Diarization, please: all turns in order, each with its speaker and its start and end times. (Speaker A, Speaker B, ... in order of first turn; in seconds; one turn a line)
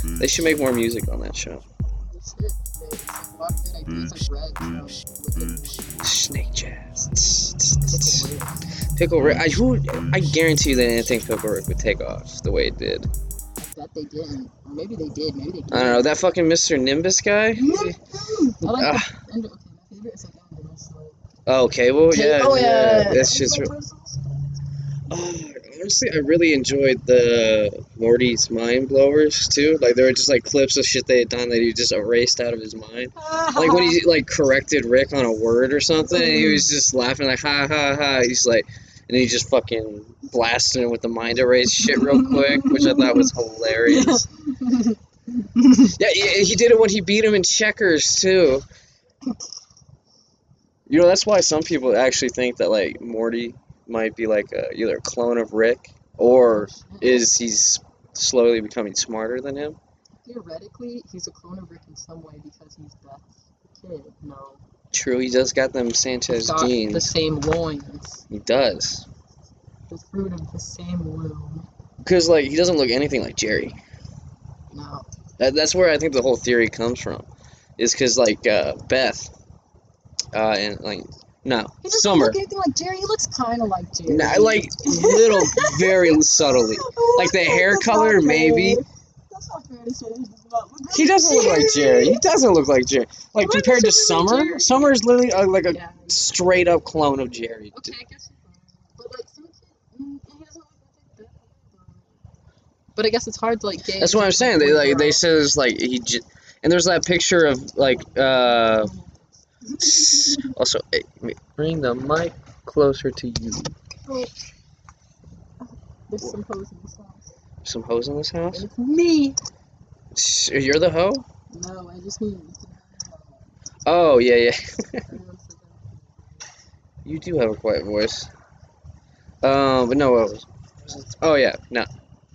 Speaker A: 0.2-1.6
Speaker B: 2.0-6.0
Speaker A: 6.0-8.3
Speaker B: 7.9-8.7
Speaker A: 9.0-13.1
Speaker B: 13.6-16.1
Speaker A: 15.7-17.9
Speaker B: 17.6-21.2
Speaker A: 18.6-19.1
Speaker A: 21.5-23.7
Speaker B: 22.1-24.3
Speaker A: 25.1-44.3
Speaker B: 33.2-34.0
Speaker B: 36.1-36.7
Speaker B: 41.8-43.3
Speaker B: 43.9-45.9
Speaker A: 46.0-48.6
Speaker A: 50.9-59.8
Speaker B: 56.5-57.3
Speaker B: 60.2-64.6
Speaker A: 64.9-67.1
Speaker B: 66.3-68.2
Speaker A: 68.3-69.1
Speaker B: 69.9-71.7
Speaker A: 72.0-73.8
Speaker B: 74.7-75.1
Speaker A: 75.4-77.3
Speaker A: 77.8-79.3
Speaker A: 80.3-82.4
Speaker B: 81.8-92.2
Speaker A: 84.1-88.8
Speaker A: 90.9-97.9
Speaker B: 93.4-95.0
Speaker B: 95.7-96.2
Speaker B: 97.7-102.2
Speaker B: 103.0-105.2
Speaker A: 104.0-108.9
Speaker B: 108.2-110.6
Speaker A: 109.8-113.7
Speaker B: 114.1-114.3
Speaker B: 115.6-117.3
Speaker A: 117.6-118.7
Speaker B: 118.5-119.4
Speaker A: 120.1-121.2
Speaker B: 121.5-123.5
Speaker A: 123.9-125.1
Speaker B: 125.1-126.5
Speaker A: 127.0-128.3
Speaker A: 129.4-131.9